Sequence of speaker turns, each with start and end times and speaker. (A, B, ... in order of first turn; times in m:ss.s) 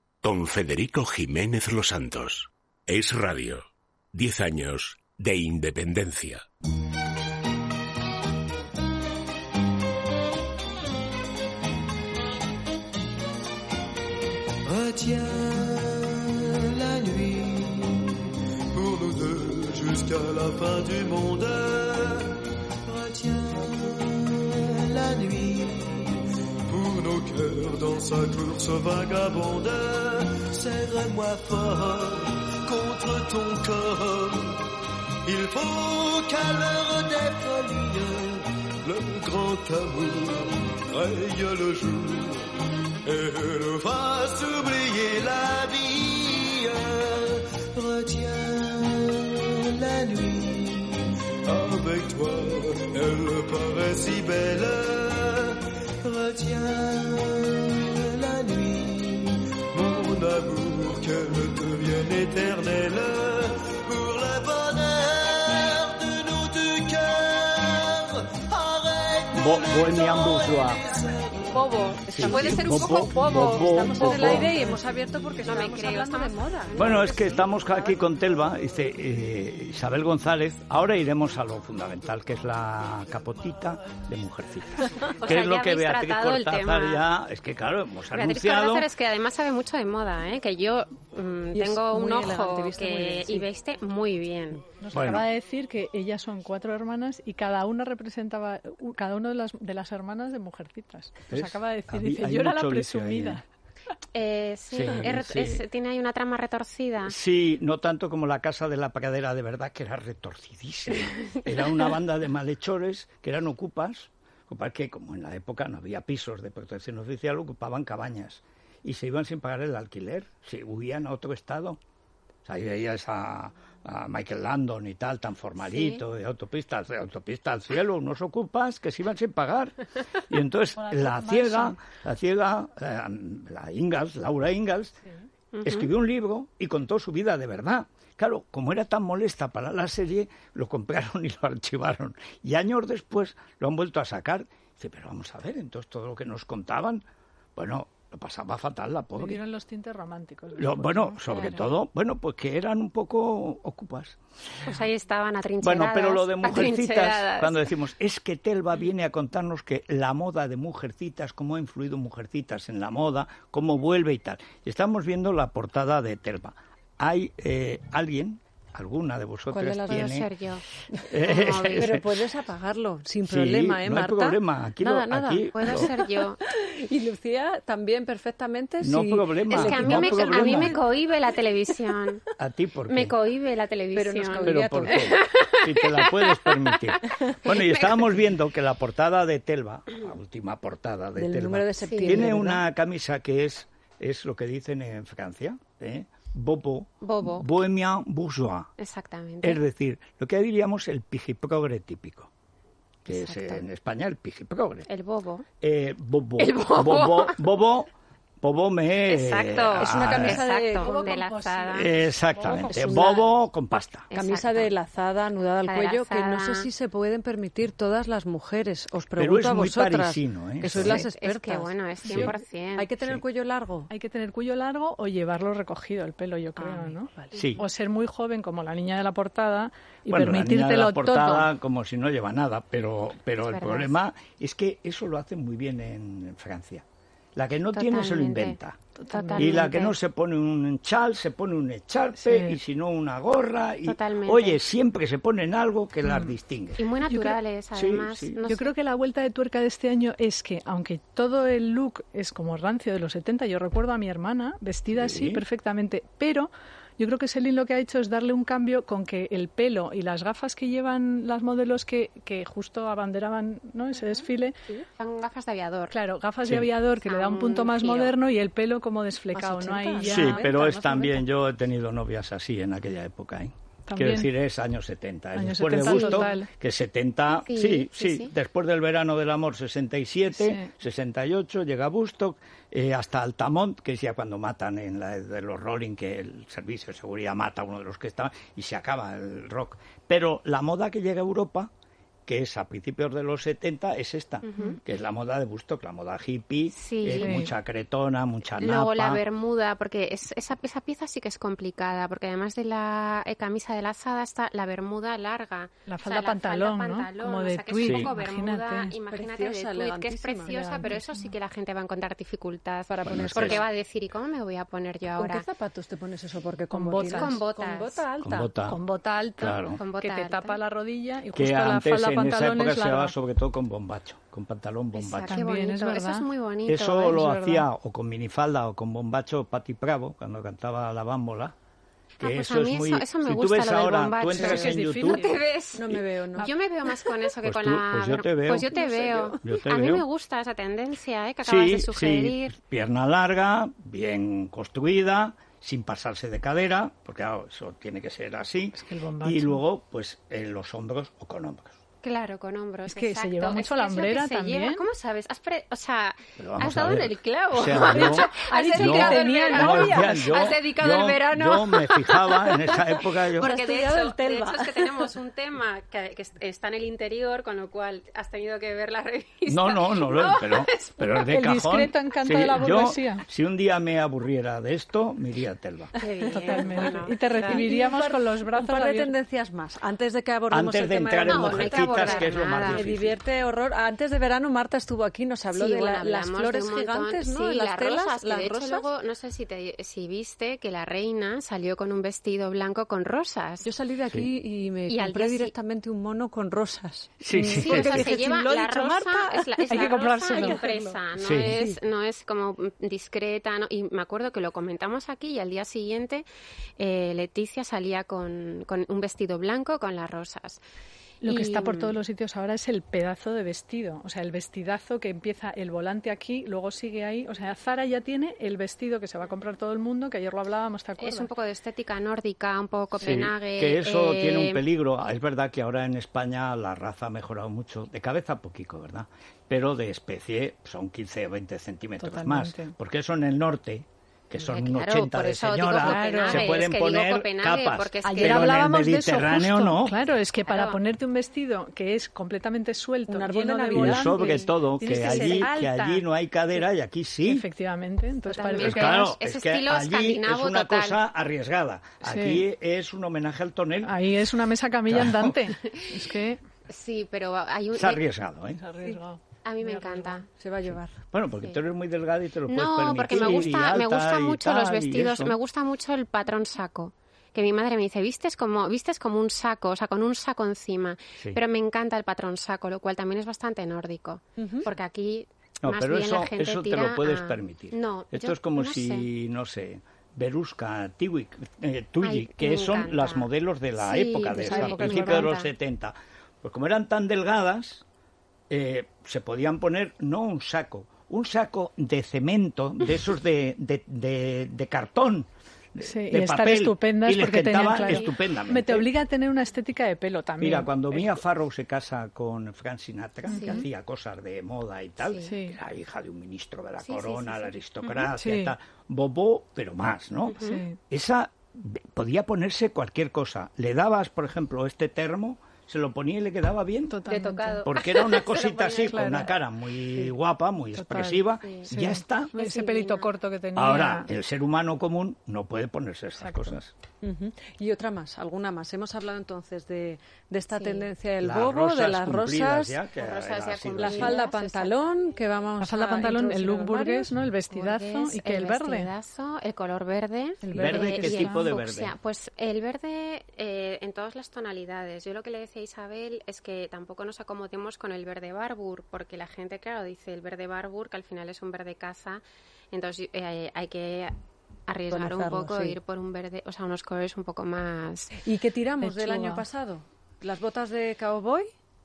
0:00.2-0:06.4 A
0:14.6-0:34.7 B
0:35.2-1:11.7 B
1:09.3-1:11.0 C
1:11.5-1:14.5 D
1:12.0-1:17.1 E
1:12.1-1:14.5 C
1:14.4-1:14.8 F
1:15.4-1:18.1 D
1:16.8-1:28.9 C
1:25.2-1:27.0 D
1:28.1-1:34.6 D
1:31.5-1:33.5 E
1:34.8-1:43.4 F
1:34.9-1:35.3 C
1:41.3-1:43.4 C
1:44.1-1:47.2 D
1:44.7-1:45.6 C
1:47.0-2:01.8 C
2:02.4-2:09.7 C
2:10.3-2:15.0 C
2:10.8-2:11.8 F
2:15.5-2:15.9 D
2:15.6-2:27.0 C
2:27.6-2:29.4 C
2:29.2-2:31.6 F
2:30.6-2:34.2 C
2:34.6-2:37.7 D
2:35.6-2:50.3 C
2:49.5-2:50.1 E
2:49.8-2:50.6 D
2:51.1-2:52.1 C
2:51.2-2:52.0 D
2:51.7-3:00.8 E
2:53.2-2:55.9 C
2:55.5-2:56.4 D
2:58.8-3:00.8 C
2:59.5-3:02.2 D
3:02.4-3:03.1 C
3:02.9-3:08.1 D
3:03.9-3:05.1 E
3:04.4-3:18.7 C
3:11.2-3:12.6 E
3:11.8-3:12.3 D
3:17.0-3:17.6 D
3:18.8-3:19.6 D
3:19.4-3:22.3 C
3:23.0-3:24.9 C
3:23.1-3:23.6 D
3:24.9-3:25.5 D
3:25.6-3:30.4 C
3:26.4-3:27.5 D
3:29.0-3:31.9 D
3:29.8-3:31.1 E
3:30.8-3:33.1 F
3:31.7-3:34.1 C
3:32.5-3:33.2 E
3:32.7-3:33.1 D
3:34.1-3:34.7 D
3:34.2-3:43.9 E
3:35.6-3:36.7 D
3:39.2-3:41.0 C
3:40.6-3:42.9 D
3:42.0-3:42.3 C
3:43.9-3:51.5 F
3:46.6-3:47.5 E
3:47.3-3:47.6 C
3:50.1-3:58.8 C
3:53.4-3:53.9 D
3:57.7-4:00.0 D
3:59.0-3:59.7 F
3:59.4-4:06.9 C
4:02.2-4:02.6 F
4:03.8-4:04.6 D
4:06.1-4:06.3 F
4:06.8-4:08.7 D
4:07.1-4:07.4 F
4:07.7-4:08.4 C
4:08.4-4:24.6 F
4:14.9-4:15.4 C
4:24.7-4:25.9 D
4:25.9-4:30.6 F
4:27.0-4:28.2 D
4:29.3-4:31.1 E
4:30.0-4:51.7 C
4:33.9-4:34.3 F
4:35.3-4:36.5 F
4:35.8-4:36.3 D
4:37.5-4:38.3 D
4:40.4-4:40.7 F
4:52.3-4:59.2 C
4:54.4-4:54.8 D
4:56.7-4:57.4 D
4:57.2-4:57.5 F
4:58.6-5:15.4 D
5:05.9-5:08.9 F
5:07.8-5:08.1 C
5:09.1-5:10.9 E
5:10.4-5:11.3 F
5:12.9-5:13.7 E
5:13.0-5:13.6 C
5:15.2-5:18.5 E
5:16.7-5:17.4 F
5:17.0-5:18.0 D
5:18.2-5:18.8 C
5:18.6-5:23.1 F
5:19.4-5:19.8 C
5:19.6-5:20.6 D
5:21.3-5:25.4 C
5:24.9-5:27.3 D
5:25.3-5:26.2 F
5:26.7-5:31.5 C
5:27.0-5:27.7 F
5:32.2-5:35.4 C
5:32.2-5:42.5 D
5:34.3-5:35.4 F
5:35.7-5:36.5 E
5:37.4-5:38.7 C
5:38.7-5:39.4 E
5:39.4-5:40.0 C
5:41.4-5:51.8 C
5:48.7-5:49.6 F
5:52.0-6:11.2 D
5:52.8-5:54.8 F
5:56.4-6:03.5 C
5:57.9-6:00.2 F
5:58.8-5:59.7 E
6:03.0-6:05.1 E
6:09.5-6:15.9 C
6:11.1-6:13.2 F
6:15.9-6:17.6 D
6:16.0-6:16.9 E
6:16.3-6:19.1 F
6:17.5-6:28.8 E
6:20.5-6:23.2 C
6:21.2-6:22.8 D
6:25.5-6:33.7 D
6:33.6-6:41.8 E
6:34.9-6:35.5 D
6:37.2-6:38.2 C
6:37.5-6:46.2 D
6:39.7-6:40.6 F
6:41.2-6:41.5 C
6:46.8-6:50.6 D
6:51.2-7:01.3 F
6:51.2-6:52.0 D
7:01.0-7:04.6 D
7:02.9-7:19.9 C
7:12.0-7:12.7 F
7:14.4-7:18.7 D
7:15.8-7:16.6 F
7:18.0-7:26.0 F
7:20.4-7:20.8 D
7:23.1-7:25.6 E
7:23.7-7:27.4 C
7:27.2-7:29.0 F
7:28.3-7:31.0 D
7:28.5-7:34.0 C
7:32.0-7:32.4 F
7:33.8-7:36.4 F
7:34.9-7:35.5 C
7:35.7-7:36.1 D
7:36.7-7:38.0 D
7:37.7-7:38.6 C
7:38.5-7:40.2 F
7:39.4-7:40.2 D
7:40.3-7:41.0 E
7:41.1-7:45.4 C
7:42.5-7:59.1 D
7:54.4-7:54.7 E
7:55.6-8:07.8 C
8:02.0-8:05.5 D
8:04.4-8:05.3 F
8:08.5-8:18.9 C
8:15.8-8:21.2 F
8:20.4-8:37.0 C
8:23.2-8:23.6 D
8:23.3-8:23.6 F
8:25.0-8:25.3 D
8:25.2-8:25.6 F
8:26.8-8:27.5 D
8:28.0-8:28.5 F
8:30.3-8:30.6 D
8:30.4-8:30.8 F
8:36.9-8:37.6 F
8:37.0-8:39.3 D
8:37.6-8:42.3 C
8:38.7-8:39.3 F
8:40.7-8:44.1 F
8:41.4-8:41.7 D
8:42.3-8:43.1 D
8:43.6-8:46.7 C
8:46.2-8:46.6 F
8:47.0-8:52.8 E
8:50.5-8:50.9 D
8:51.2-8:54.2 C
8:52.9-8:54.9 D
8:53.8-8:57.1 E
8:55.6-8:58.9 F
8:57.5-9:14.2 D
9:00.4-9:01.0 E
9:00.5-9:01.4 F
9:00.6-9:01.9 C
9:14.7-9:18.2 D
9:14.9-9:15.8 E
9:18.2-9:21.5 E
9:18.8-9:19.4 F